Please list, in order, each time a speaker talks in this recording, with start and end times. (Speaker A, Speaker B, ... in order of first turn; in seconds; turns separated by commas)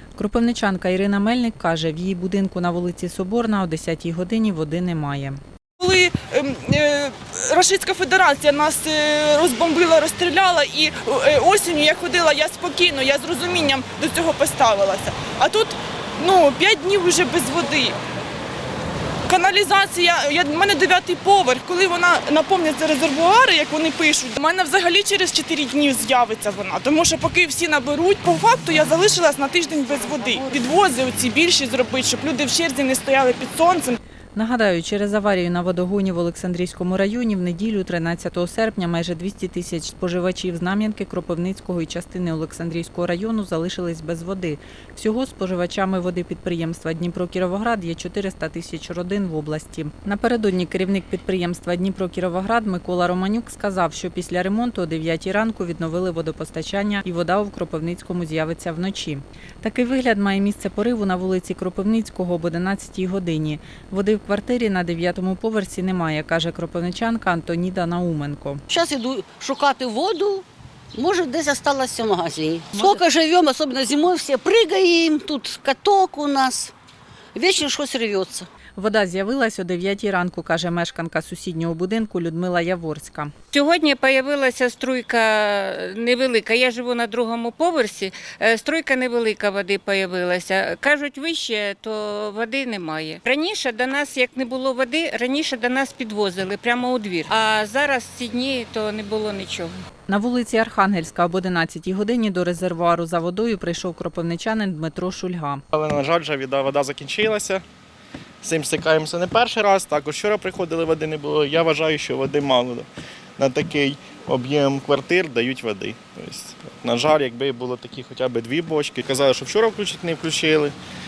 Speaker A: 0.2-5.4, Speaker B: 5.8-18.0, Speaker B: 19.3-34.0, Speaker A: 34.4-68.6, Speaker C: 68.7-76.7, Speaker A: 72.8-73.0, Speaker C: 77.3-78.5, Speaker A: 78.8-83.3, Speaker D: 83.5-99.7, Speaker A: 100.1-105.6, Speaker E: 105.7-107.6, Speaker E: 108.4-120.8